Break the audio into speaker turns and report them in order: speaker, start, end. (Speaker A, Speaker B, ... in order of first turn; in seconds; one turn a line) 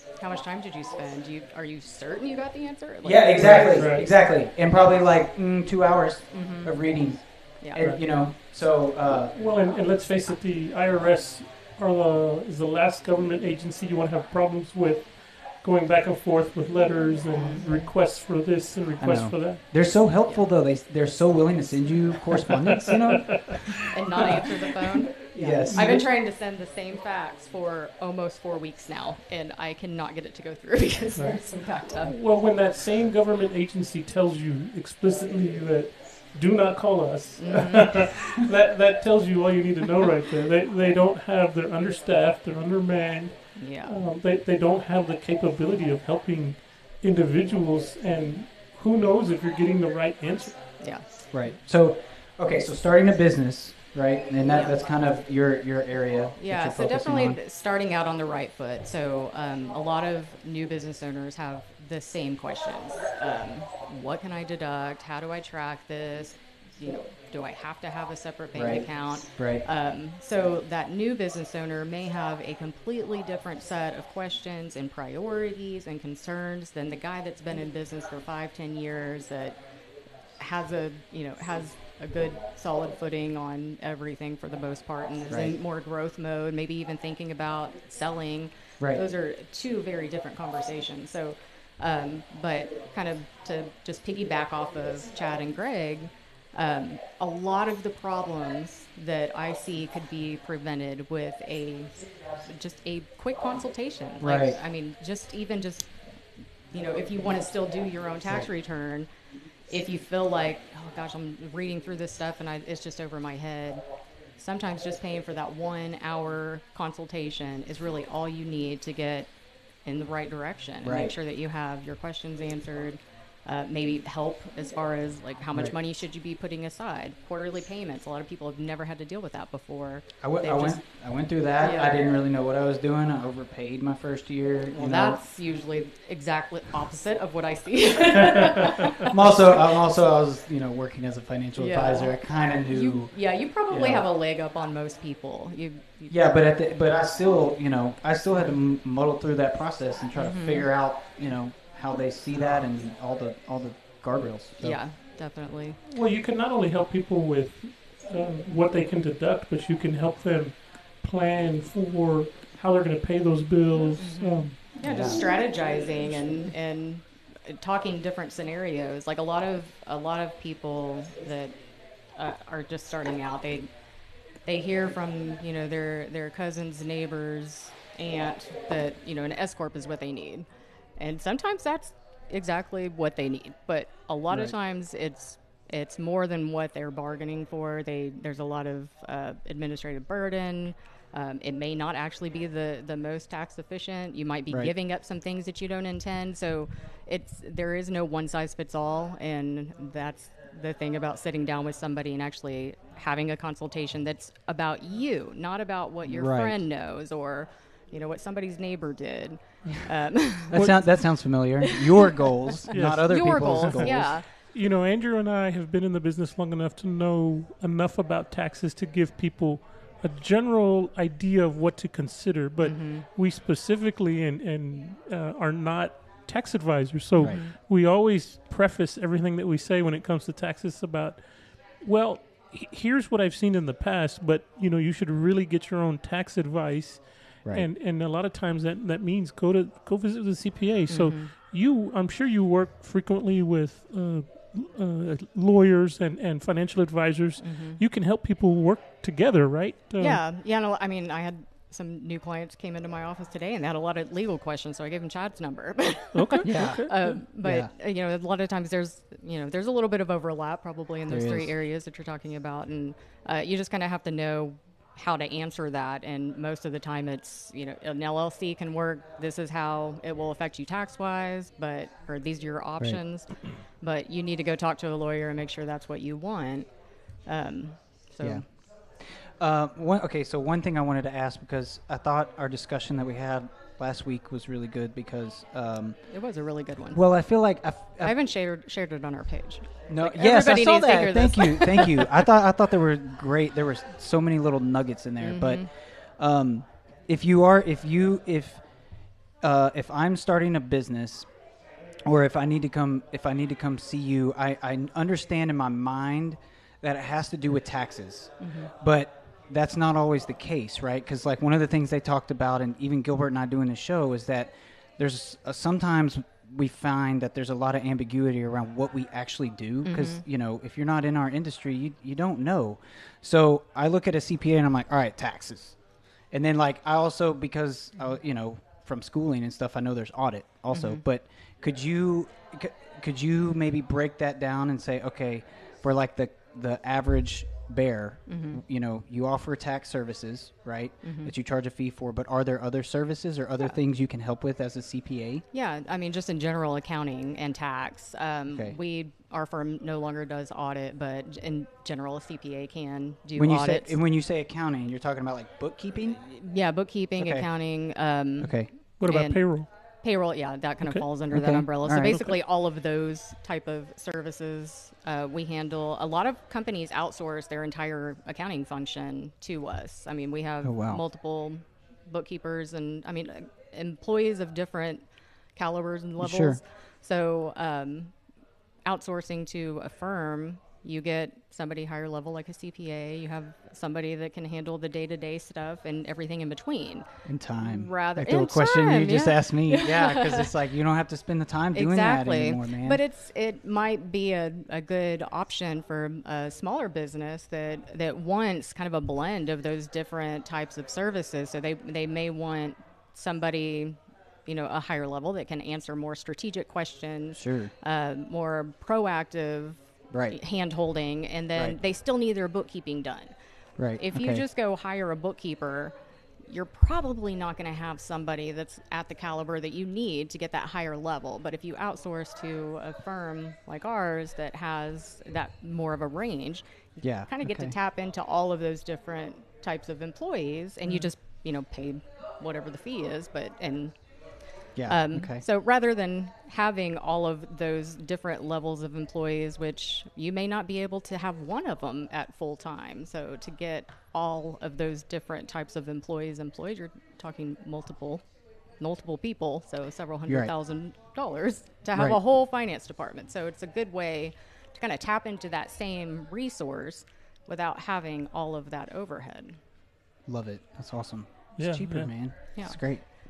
Speaker A: 0.2-3.8
Speaker B: 3.0-9.3
Speaker C: 3.4-4.1
Speaker A: 6.3-6.8
Speaker C: 7.8-8.1
Speaker C: 9.3-19.6
Speaker A: 17.3-17.8
Speaker B: 19.0-24.4
Speaker A: 23.9-32.2
Speaker B: 25.3-26.1
Speaker C: 31.2-50.6
Speaker A: 37.4-38.2
Speaker A: 43.6-44.0
Speaker A: 50.8-51.1
Speaker B: 51.3-57.4
Speaker A: 54.4-54.8
Speaker A: 56.4-79.6
Speaker B: 68.5-69.6
Speaker A: 80.4-106.0
Speaker B: 85.3-85.6
Speaker B: 104.2-104.6
Speaker A: 106.7-109.1
Speaker A: 109.7-113.8
Speaker A: 114.4-130.8
Speaker B: 120.8-121.2
Speaker B: 130.2-135.2
Speaker A: 131.6-132.0
Speaker A: 134.7-139.7
Speaker B: 139.1-144.1
Speaker A: 141.6-146.3
Speaker B: 146.1-154.8
Speaker A: 150.1-150.7
Speaker A: 154.6-155.8
Speaker C: 155.9-165.1
Speaker A: 164.0-173.7
Speaker B: 164.8-165.2
Speaker A: 174.4-211.0
Speaker B: 206.1-206.6
Speaker C: 210.5-210.8
Speaker B: 210.5-214.2
Speaker A: 211.6-212.2
Speaker C: 212.7-250.2
Speaker A: 212.8-214.3
Speaker A: 222.6-223.1
Speaker B: 227.2-227.4
Speaker A: 227.2-227.5
Speaker A: 240.9-241.3
Speaker A: 247.4-247.8
Speaker A: 250.0-278.4
Speaker C: 256.1-257.2
Speaker B: 256.4-257.7
Speaker B: 261.1-261.5
Speaker B: 278.2-286.1
Speaker A: 286.1-287.0
Speaker B: 286.9-288.1
Speaker A: 288.0-292.2
Speaker B: 289.9-298.6
Speaker A: 295.2-295.7
Speaker B: 299.4-301.3
Speaker B: 302.1-345.4
Speaker A: 308.4-308.7
Speaker A: 319.8-320.2
Speaker A: 330.7-331.0
Speaker A: 338.3-338.6
Speaker A: 341.0-341.3
Speaker A: 345.5-354.0
Speaker B: 348.5-348.8
Speaker B: 353.4-356.2
Speaker A: 356.2-378.1
Speaker B: 357.2-357.5
Speaker B: 358.4-358.7
Speaker C: 359.0-359.7
Speaker B: 361.3-362.3
Speaker B: 370.6-371.0
Speaker B: 376.2-376.6
Speaker A: 378.9-390.5
Speaker B: 387.3-393.0
Speaker A: 391.7-413.3
Speaker B: 407.4-407.7
Speaker B: 410.1-410.4
Speaker B: 413.8-414.4
Speaker A: 413.9-415.9
Speaker A: 416.5-434.1
Speaker B: 427.0-427.8
Speaker A: 434.7-448.2
Speaker B: 434.8-435.4
Speaker A: 448.8-459.6
Speaker B: 450.3-450.5
Speaker B: 460.3-463.1
Speaker C: 461.6-462.1